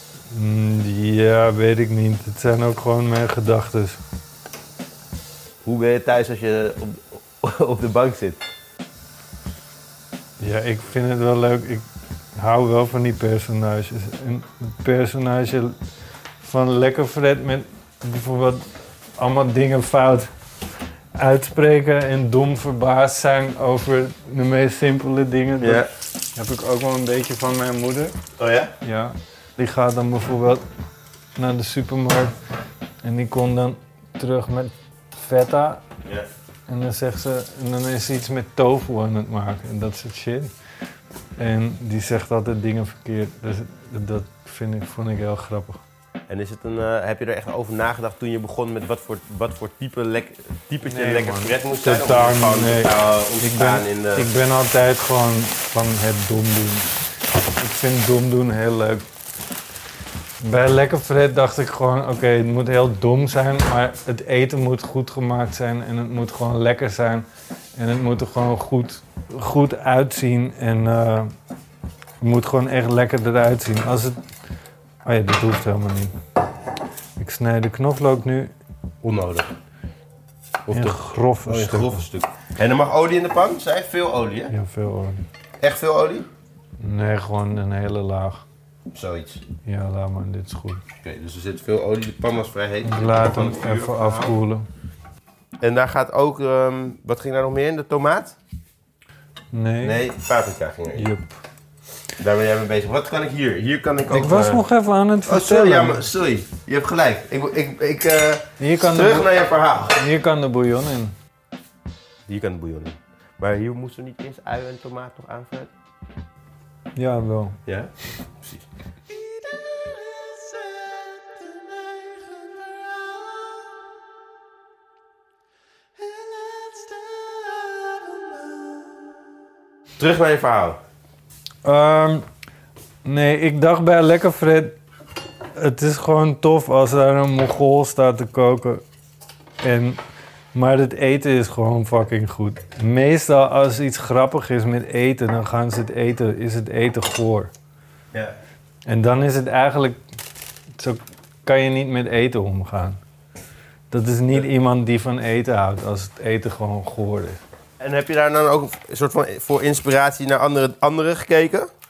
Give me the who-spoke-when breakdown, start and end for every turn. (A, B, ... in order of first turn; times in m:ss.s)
0:00.3-0:04.0 A
0:05.6-0:08.4 B
0:10.4-0:11.8 A
0:12.4-0:15.7 A
0:16.4-0:20.3 A
0:21.1-0:28.2 A
0:25.6-0:25.9 B
0:28.4-0:28.7 B
0:28.8-0:30.6 A
0:31.4-0:32.3 A
0:33.0-0:35.8 A
0:36.7-0:40.5 A
0:41.4-0:45.8 A
0:46.3-0:54.3 B
0:50.8-0:56.9 A
0:57.6-0:59.0 A
1:00.4-1:11.3 A
1:12.2-1:14.2 A
1:15.0-1:16.1 A
1:17.2-1:18.5 A
1:19.0-1:19.5 B
1:20.7-1:24.5 B
1:20.7-1:22.0 A
1:24.5-1:25.2 A
1:25.6-1:26.3 B
1:26.8-1:28.4 A
1:28.9-1:29.4 B
1:29.6-1:30.8 A
1:31.0-1:34.3 B
1:32.8-1:34.7 A
1:35.6-1:38.4 B
1:39.5-1:40.0 A
1:39.8-1:41.1 B
1:40.9-1:41.4 A
1:42.2-1:44.6 B
1:44.1-1:46.1 A
1:45.2-1:50.0 B
1:48.6-1:51.1 A
1:52.3-1:55.7 B
1:57.0-1:57.6 A
1:57.6-2:03.6 B
2:06.0-2:09.0 B
2:10.0-2:10.8 B
2:11.6-2:12.2 A
2:13.0-2:14.8 A
2:15.5-2:18.8 A
2:19.6-2:20.0 A
2:20.5-2:27.5 A
2:28.8-2:30.0 A
2:30.8-2:33.0 A
2:33.9-2:37.4 A
2:37.8-2:41.7 B